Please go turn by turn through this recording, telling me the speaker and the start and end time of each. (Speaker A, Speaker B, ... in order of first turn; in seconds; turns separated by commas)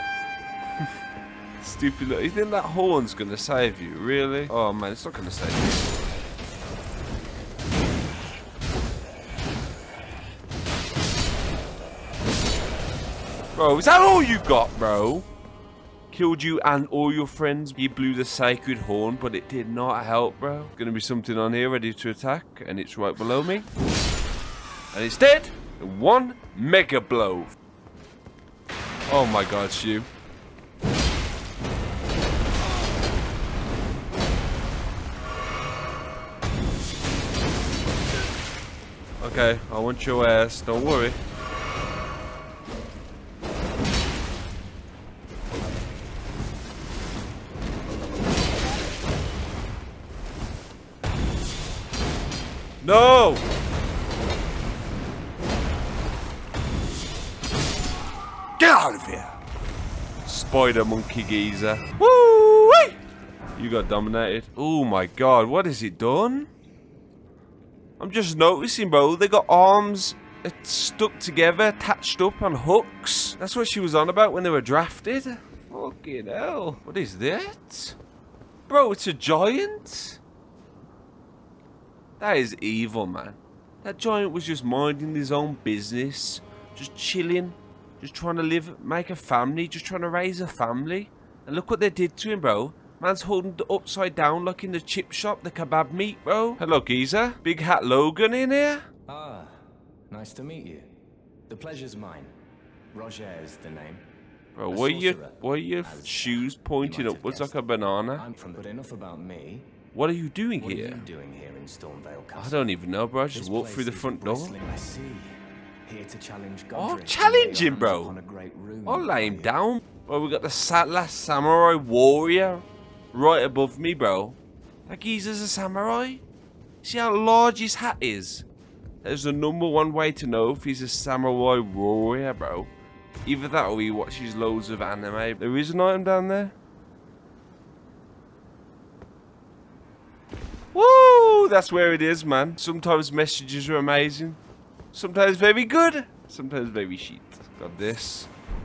Speaker A: 1.6-5.9, Speaker A: 13.5-15.3, Speaker A: 16.1-23.7, Speaker A: 24.9-27.5, Speaker A: 29.1-30.1, Speaker A: 39.2-41.2, Speaker A: 52.8-53.5, Speaker A: 58.6-59.3, Speaker A: 60.3-63.0, Speaker A: 63.6-66.5, Speaker A: 68.0-78.0, Speaker A: 78.7-80.2, Speaker A: 82.2-98.9, Speaker B: 99.1-101.0, Speaker B: 101.5-102.3, Speaker B: 102.9-104.0, Speaker A: 104.5-108.2, Speaker B: 104.7-107.6, Speaker B: 108.2-109.7, Speaker A: 109.9-111.1, Speaker B: 110.6-112.6, Speaker A: 112.4-114.5, Speaker B: 113.3-119.5, Speaker A: 116.7-118.1, Speaker A: 118.8-126.2, Speaker A: 126.8-128.4, Speaker A: 129.0-132.7, Speaker A: 133.2-136.5, Speaker A: 140.7-144.4, Speaker A: 144.9-148.3